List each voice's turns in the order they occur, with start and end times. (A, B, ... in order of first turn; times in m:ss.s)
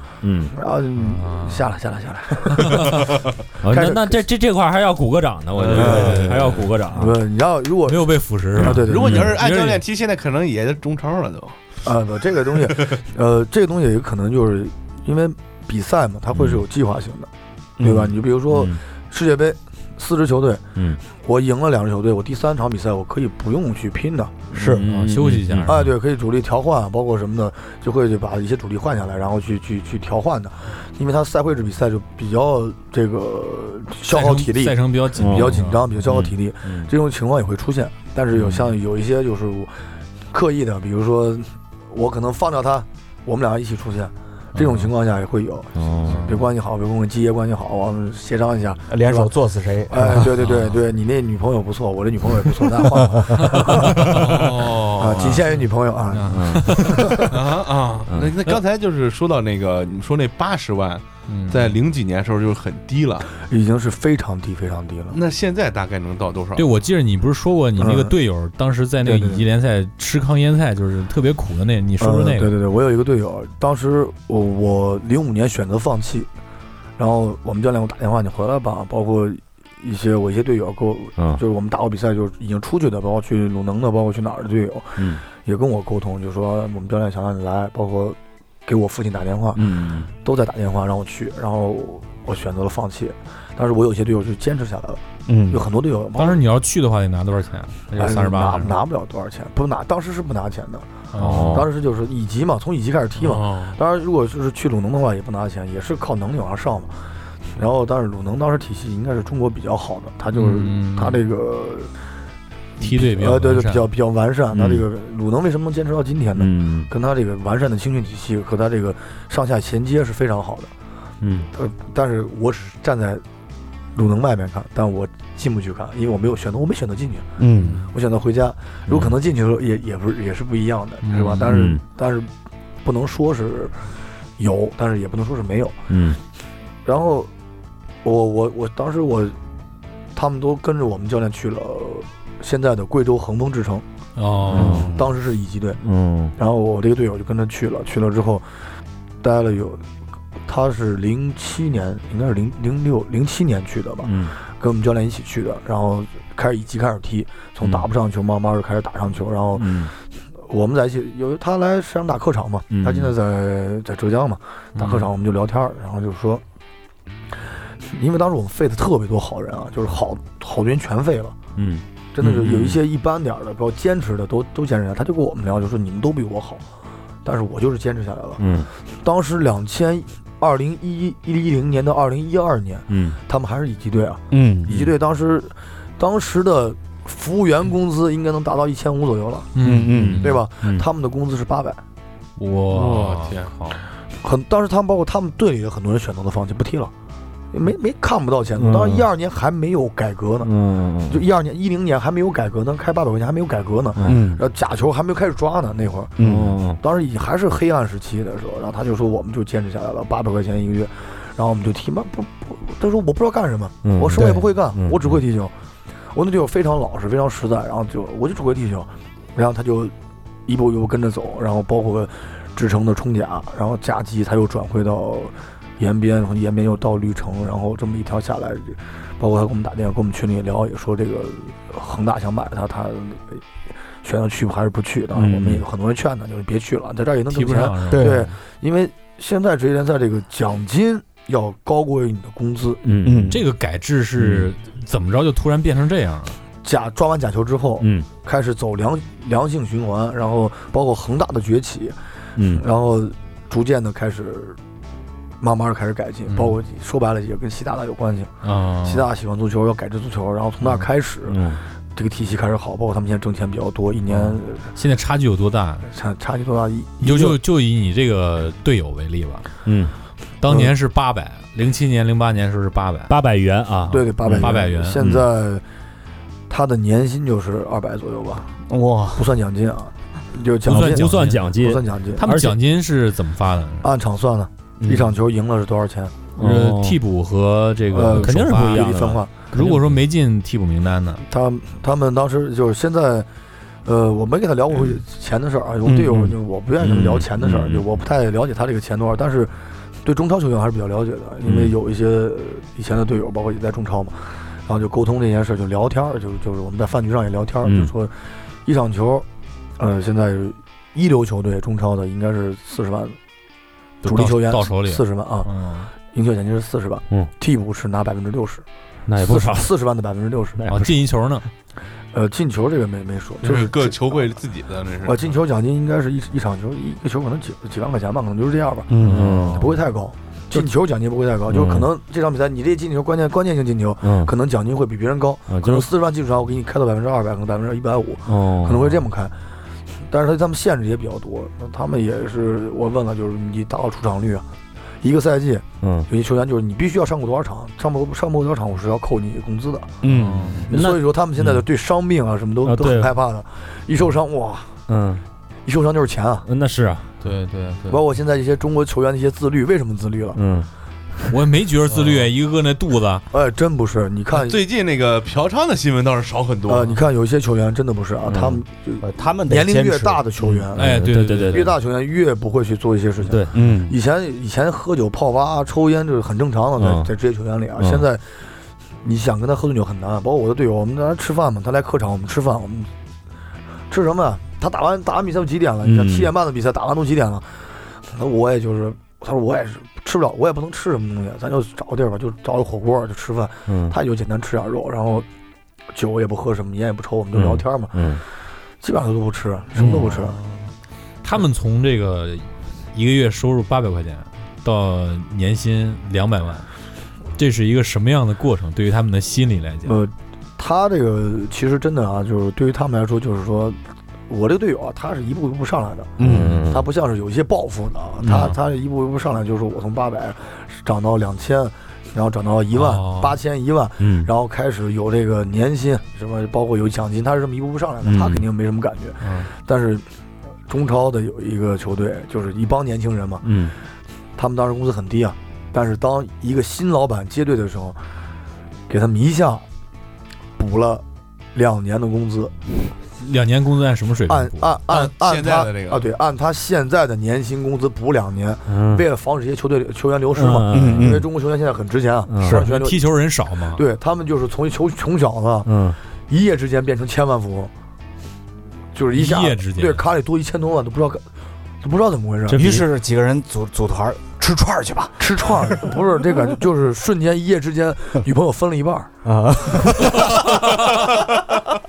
0:00.2-0:00.5 A
0:00.5-0:04.2 B
0:01.0-0:01.7 C
0:02.5-0:03.0 C
0:03.6-0:07.2 A
0:05.5-0:06.4 D
0:05.7-0:06.4 B
0:05.8-0:06.7 C
0:06.9-0:09.3 B
0:07.8-0:09.8 C
0:08.6-0:11.6 D
0:08.8-0:09.3 A
0:11.8-0:24.4 B
0:12.6-0:12.9 D
0:16.3-0:16.6 A
0:17.8-0:18.1 E
0:18.5-0:18.8 A
0:24.5-0:24.9 E
0:24.5-0:25.7 A
0:24.8-0:25.9 C
0:25.6-0:49.3 B
0:34.1-0:36.2 C
0:35.2-0:36.9 A
0:44.5-0:44.9 C
0:45.8-0:46.2 A
0:46.1-0:46.4 D
0:48.9-0:50.3 E
0:49.9-0:57.3 B
0:50.4-0:50.8 C
0:53.0-0:53.5 E
0:53.4-0:54.4 C
0:54.1-0:55.4 D
0:56.1-0:57.3 C
0:56.3-0:57.1 A
0:57.1-1:03.3 D
0:58.1-0:58.3 A
1:01.3-1:01.8 C
1:03.4-1:05.2 B
1:05.1-1:06.8 D
1:06.5-1:12.5 C
1:07.8-1:08.2 B
1:09.0-1:09.5 B
1:12.0-1:16.3 B
1:17.0-1:36.4 B
1:29.5-1:30.1 A
1:35.2-1:35.6 E
1:36.2-1:38.8 C
1:38.0-1:47.0 B
1:41.1-1:41.7 C
1:41.2-1:41.7 A
1:43.2-1:43.8 D
1:47.6-1:51.9 B
1:50.3-1:51.2 C
1:52.8-1:53.8 C
1:52.8-2:00.7 B
1:54.5-1:54.8 A
1:56.4-1:56.9 A
2:01.2-2:01.5 A
2:01.5-2:03.2 B
2:03.9-2:12.3 B
2:07.4-2:07.8 E
2:08.9-2:09.1 A
2:11.0-2:11.5 C
2:11.4-2:11.8 A
2:12.8-2:13.8 B
2:14.4-2:15.9 B
2:15.9-2:16.2 A
2:16.8-2:17.3 B
2:18.0-2:19.4 B
2:20.1-2:23.8 B
2:24.2-2:24.9 C
2:24.5-2:25.0 E
2:24.5-2:25.0 A
2:24.5-2:25.8 B
2:25.8-2:26.3 A
2:26.4-2:28.5 B
2:29.2-2:29.8 B
2:30.4-2:46.4 B
2:34.0-2:34.3 A
2:39.5-2:39.9 A
2:42.7-2:43.1 A
2:47.7-2:51.4 B
2:51.6-2:52.8 A
2:52.1-2:56.6 B
2:57.2-3:09.5 B
2:58.4-2:58.7 A
3:02.9-3:03.2 A
3:04.3-3:04.7 E
3:09.5-3:10.4 C
3:09.6-3:10.2 E
3:09.9-3:10.8 A
3:10.2-3:11.8 B
3:12.4-3:13.8 C
3:12.7-3:13.6 D
3:14.1-3:16.9 B
3:17.5-3:35.5 B
3:18.6-3:19.0 A
3:20.4-3:21.2 A
3:24.0-3:24.2 A
3:24.0-3:24.4 E
3:26.2-3:26.5 E
3:26.2-3:26.8 A
3:33.8-3:35.2 A
3:34.2-3:34.5 E
3:36.1-3:39.9 B
3:40.5-4:02.9 B
3:55.1-3:55.6 A
3:57.3-3:58.3 C
3:57.9-3:58.3 E
4:02.8-4:03.4 A
4:03.0-4:03.4 E
4:03.3-4:06.4 C
4:04.2-4:04.5 A
4:06.6-4:14.6 B
4:07.8-4:08.1 A
4:12.4-4:12.6 A
4:15.4-4:24.7 B
4:16.3-4:16.6 C
4:18.4-4:19.1 C
4:21.3-4:21.6 A
4:24.1-4:25.9 C
4:25.8-4:27.4 B
4:27.0-4:29.5 C
4:29.6-4:29.9 A
4:30.4-4:33.1 C
4:30.5-4:30.7 B
4:33.1-4:35.2 A
4:33.9-4:35.0 C
4:33.9-4:35.6 B
4:36.5-4:38.5 B
4:38.7-4:39.3 E
4:39.1-4:42.3 B
4:40.7-4:41.5 C
4:40.7-4:42.6 A
4:42.2-4:43.9 C
4:43.8-4:46.2 B
4:44.8-4:45.1 E
4:46.4-4:49.0 C
4:46.4-4:47.0 A
4:47.9-4:49.5 B
4:48.1-4:50.0 A
4:49.5-4:51.2 C
4:51.2-4:53.3 B
4:53.8-5:09.2 B
4:55.9-4:56.3 E
4:55.9-4:57.8 A
5:01.4-5:01.7 A
5:07.6-5:07.9 A
5:09.8-5:13.2 B
5:14.0-5:15.9 C
5:14.0-5:18.6 B
5:19.1-5:19.7 A
5:19.2-5:21.0 B
5:20.6-5:20.9 A
5:20.7-5:21.5 C
5:22.1-5:24.2 B
5:23.4-5:25.3 D
5:25.0-5:39.4 B
5:28.9-5:29.4 E
5:29.0-5:29.7 A
5:29.1-5:29.7 C
5:31.5-5:31.9 A
5:34.0-5:34.3 A
5:35.5-5:35.9 A
5:38.3-5:39.0 A
5:40.1-5:44.4 B
5:45.0-5:50.0 B
5:45.8-5:46.1 A
5:50.0-5:50.7 E
5:50.1-5:50.7 C
5:50.6-5:54.8 B
5:50.7-5:51.6 A
5:52.6-5:53.1 A
5:54.9-5:55.2 A
5:55.6-5:56.5 B
5:56.4-5:57.1 A
5:57.2-5:58.0 C
5:57.9-6:00.4 B
6:00.3-6:00.7 A
6:01.3-6:03.2 C
6:03.3-6:04.6 B
6:04.3-6:07.0 D
6:06.7-6:22.9 B
6:09.0-6:10.2 E
6:10.4-6:11.7 A
6:10.7-6:11.7 C
6:13.2-6:13.5 A
6:13.5-6:14.0 E
6:16.8-6:17.1 A
6:17.8-6:18.0 A
6:23.9-6:35.2 B
6:25.8-6:26.3 A
6:33.7-6:33.9 A
6:35.9-6:38.2 B
6:37.3-6:38.2 A
6:38.8-6:40.4 B
6:39.8-6:40.6 C
6:41.2-6:46.7 C
6:47.3-6:50.0 C
6:49.8-7:10.0 B
6:56.2-6:56.6 E
6:56.2-6:56.8 A
6:58.2-6:58.6 C
7:02.7-7:03.4 C
7:04.0-7:04.3 A
7:08.0-7:08.4 A
7:09.2-7:09.5 C
7:10.7-7:13.6 B
7:13.4-7:13.7 A
7:14.4-7:18.0 B
7:18.9-7:19.6 B
7:20.6-7:22.5 B
7:23.2-7:24.8 C
7:24.3-7:33.1 B
7:24.9-7:26.1 D
7:28.7-7:29.0 A
7:30.3-7:31.2 A
7:30.7-7:31.2 E
7:32.3-7:32.6 A
7:32.4-7:32.6 E
7:32.5-7:33.8 C
7:33.7-7:37.7 B
7:35.6-7:36.0 A
7:38.9-7:41.2 B
7:39.1-7:40.0 C
7:41.8-7:42.8 B
7:42.5-7:42.8 A
7:42.5-7:45.8 E
7:45.2-7:49.1 B
7:49.2-7:50.6 E
7:50.9-7:51.3 D